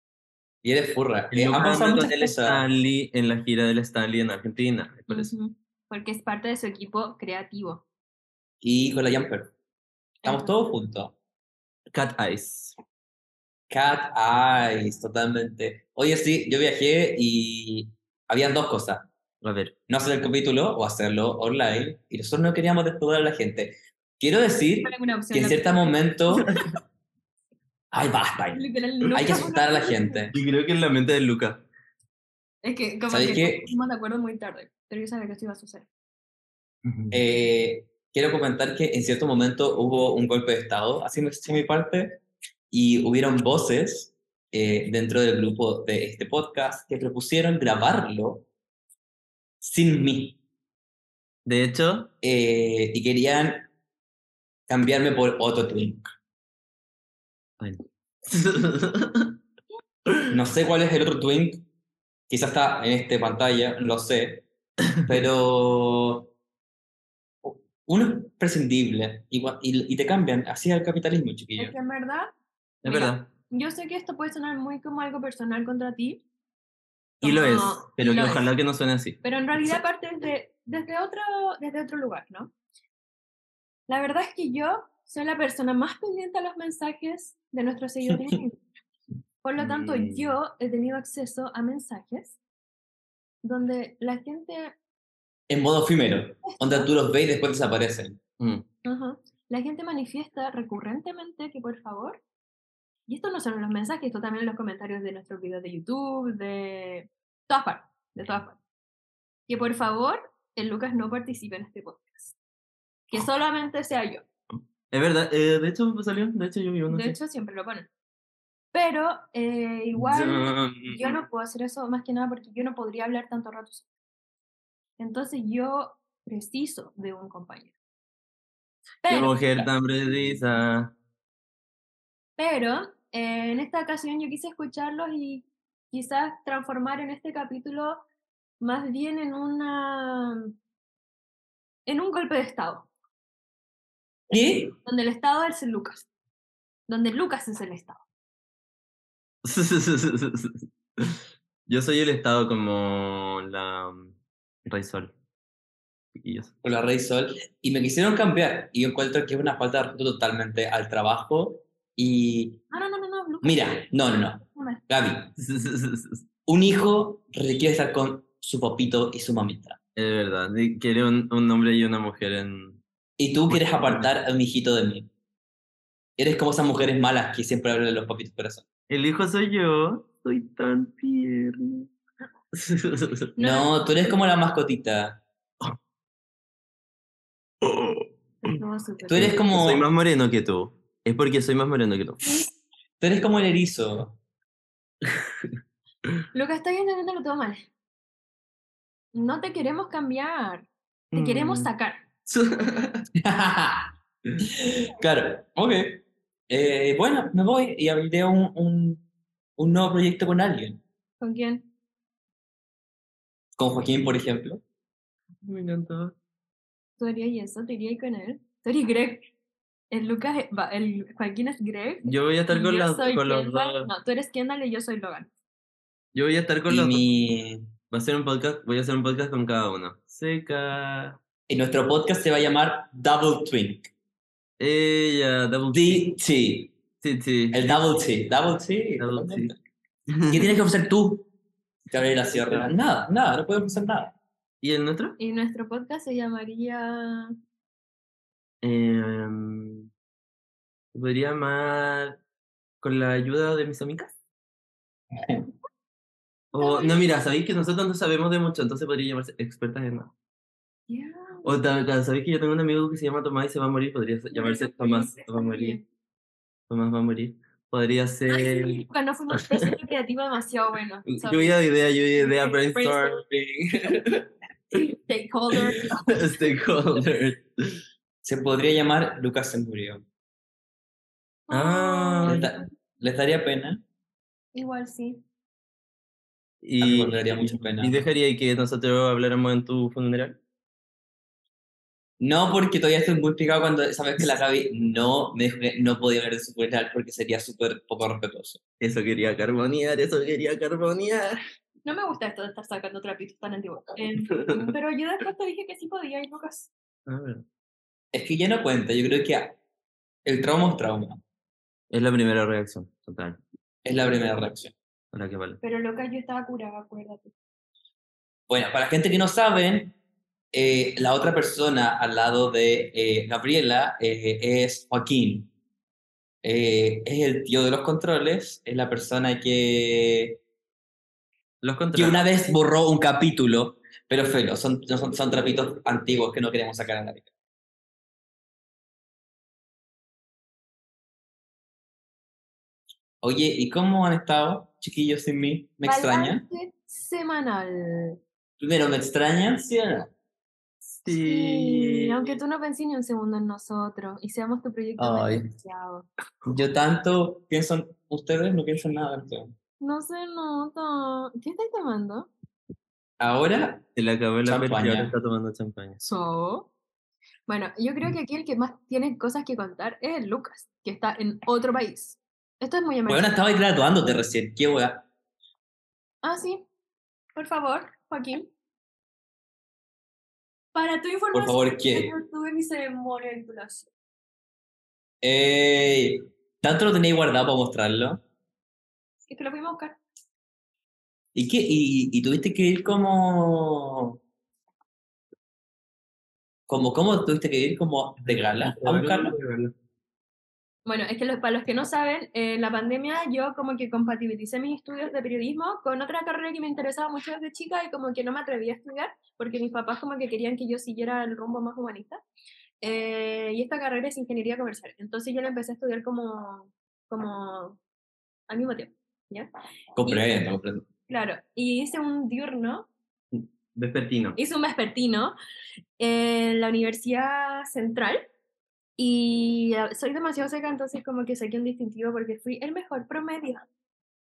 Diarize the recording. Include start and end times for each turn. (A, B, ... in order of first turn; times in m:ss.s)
0:00.6-0:02.7 A
0:01.3-0:05.3 B
0:05.1-0:07.8 C
0:08.6-0:09.5 A
0:10.2-0:10.5 C
0:10.2-0:11.2 A
0:11.9-0:12.8 B
0:13.7-0:19.1 A
0:19.4-0:19.8 B
0:19.9-0:26.5 A
0:24.8-0:26.5 C
0:27.9-0:30.3 A
0:28.5-0:30.3 C
0:30.3-0:31.6 B
0:32.6-0:35.9 C
0:33.1-0:33.7 A
0:36.8-0:37.2 B
0:37.1-0:42.2 A
0:42.7-0:48.5 A
0:49.6-0:50.4 A
0:51.5-0:52.1 B
0:52.2-0:53.7 A
0:54.7-0:56.1 A
0:57.6-0:59.4 B
1:00.1-1:00.3 B
1:00.3-1:01.6 A
1:02.3-1:04.5 A
1:05.0-1:06.3 A
1:07.4-1:11.8 A
1:11.6-1:12.3 C
1:12.8-1:13.3 B
1:12.8-1:16.2 C
1:17.2-1:18.5 C
1:17.2-1:19.7 B
1:19.2-1:22.5 C
1:23.9-1:28.6 C
1:29.4-1:32.4 C
1:29.6-1:30.4 B
1:33.4-1:34.8 C
1:35.5-1:38.2 A
1:36.4-1:36.9 C
1:38.4-1:38.6 B
1:38.8-1:42.2 C
1:43.1-1:48.6 C
1:49.5-1:52.4 C
1:53.1-1:54.2 C
1:54.9-1:57.2 B
1:56.9-1:57.9 C
1:58.7-2:03.9 C
2:00.0-2:01.2 B
2:05.0-2:07.7 C
2:09.0-2:09.3 C
2:09.1-2:10.9 B
2:12.4-2:18.0 C
2:18.6-2:20.5 C
2:21.9-2:22.9 C
2:24.3-2:24.8 A
2:24.8-2:26.1 C
2:26.9-2:28.0 C
2:29.4-2:34.2 B
2:34.7-2:35.1 B
2:36.2-2:36.6 B
2:36.6-2:42.6 A
2:42.7-2:44.8 C
2:43.4-2:45.3 A
2:45.4-2:46.2 B
2:46.5-2:49.8 A
2:50.0-2:52.8 B
2:53.2-2:55.1 A
2:53.5-2:54.1 B
2:56.2-2:58.7 A
2:58.9-3:01.9 B
3:02.5-3:03.3 B
3:03.4-3:04.1 C
3:03.4-3:05.2 A
3:07.6-3:08.1 B
3:08.4-3:09.4 C
3:09.0-3:09.9 A
3:09.2-3:12.2 B
3:13.0-3:14.2 A
3:16.3-3:17.7 C
3:19.1-3:22.0 C
3:21.1-3:21.7 B
3:22.3-3:23.1 B
3:23.2-3:23.9 A
3:24.6-3:29.0 A
3:29.6-3:30.8 A
3:31.2-3:31.7 C
3:33.6-3:34.6 A
3:35.4-3:36.2 B
3:37.0-3:39.3 C
3:39.9-3:45.3 C
3:42.0-3:43.9 B
3:46.2-3:47.0 B
3:46.7-3:47.7 A
3:47.9-3:51.2 B
3:51.5-3:53.9 A
3:54.6-3:56.0 B
3:55.7-3:56.8 A
3:57.0-3:57.8 B
3:57.5-3:59.6 A
3:59.0-3:59.5 B
4:00.1-4:00.5 B
4:00.3-4:01.2 A
4:01.9-4:04.1 A
4:02.3-4:02.7 B
4:04.6-4:05.2 B
4:05.2-4:07.4 C
4:08.6-4:09.9 B
4:10.9-4:12.2 B
4:12.8-4:14.2 B
4:16.5-4:17.1 C
4:16.6-4:20.1 B
4:20.9-4:21.6 C
4:21.4-4:25.8 B
4:24.3-4:25.8 C
4:26.7-4:28.8 B
4:28.3-4:31.6 C
4:31.1-4:34.2 B
4:32.2-4:33.2 C
4:34.7-4:35.9 C
4:35.6-4:37.8 B
4:38.2-4:40.0 A
4:41.5-4:42.7 C
4:41.5-4:42.4 B
4:42.3-4:43.8 A
4:44.5-4:45.2 C
4:46.6-4:50.4 B
4:46.8-4:48.0 A
4:52.2-4:58.6 A
4:58.8-5:01.4 B
5:01.8-5:06.7 C
5:04.3-5:04.8 B
5:07.1-5:07.4 B
5:08.1-5:09.6 A
5:10.2-5:11.2 A
5:11.9-5:13.4 B
5:13.8-5:14.7 A
5:15.1-5:15.6 B
5:15.6-5:17.3 C
5:18.5-5:20.0 A
5:20.5-5:25.5 A
5:26.4-5:30.4 A
5:31.6-5:32.2 B
5:31.9-5:37.3 A
5:43.2-5:46.5 A
5:45.8-5:48.2 C
5:48.6-5:50.1 A
5:51.0-5:52.4 B
5:51.1-5:56.1 C
5:55.0-5:55.5 A
5:56.5-5:59.6 A
5:59.8-6:02.3 C
6:03.2-6:03.9 A
6:04.0-6:06.0 B
6:04.4-6:05.1 A
6:06.0-6:06.7 C
6:07.5-6:13.3 C
6:13.1-6:15.1 A
6:16.2-6:16.6 C
6:17.4-6:18.5 C
6:20.7-6:23.9 C
6:21.3-6:22.1 A
6:25.2-6:28.2 A
6:29.2-6:30.0 C
6:31.4-6:34.2 A
6:36.7-6:39.4 A
6:38.2-6:39.7 B
6:40.9-6:52.2 C
6:52.8-6:57.8 C
6:58.5-6:59.5 C
7:00.0-7:00.9 A
7:01.1-7:02.9 C
7:03.3-7:04.4 B
7:04.4-7:05.4 C
7:06.0-7:08.3 C
7:09.0-7:13.6 C